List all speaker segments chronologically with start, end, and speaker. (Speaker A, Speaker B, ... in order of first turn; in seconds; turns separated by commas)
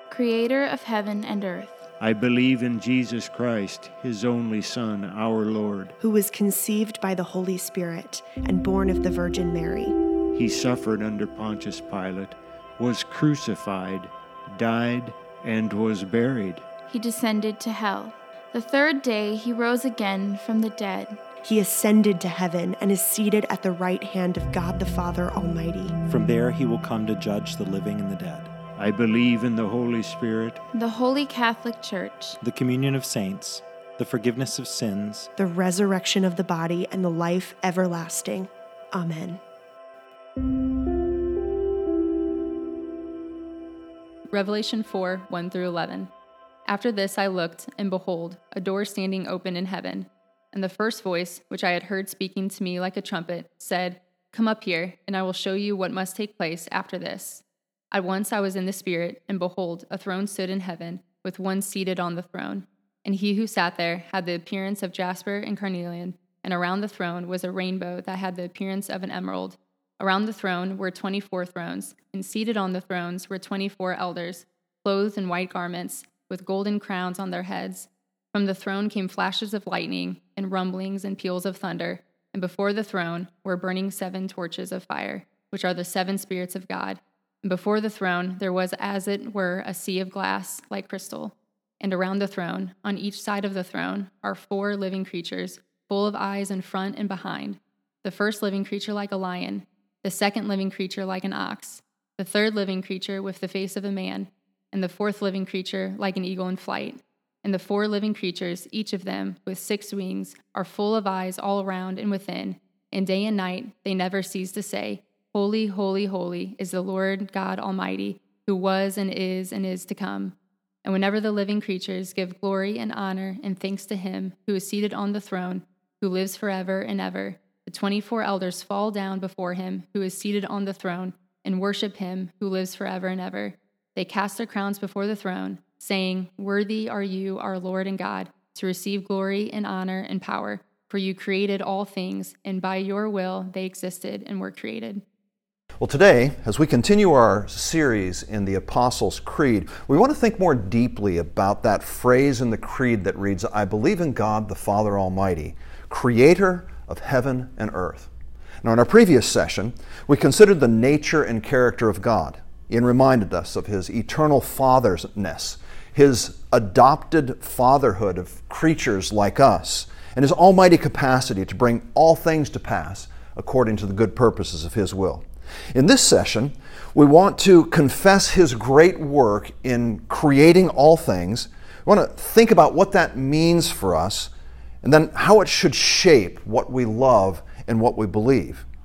Speaker A: 0.1-1.8, Speaker B: 2.0-5.9, Speaker C: 6.0-9.9, Speaker B: 10.3-16.6, Speaker A: 16.9-21.2, Speaker C: 21.4-25.9, Speaker D: 26.1-28.5, Speaker B: 28.8-30.6, Speaker A: 30.7-32.4, Speaker D: 32.4-35.3, Speaker C: 35.4-39.4, Speaker E: 44.3-46.1, Speaker E: 46.7-145.0, Speaker F: 145.8-158.1, Speaker F: 158.6-184.3, Speaker F: 184.8-188.7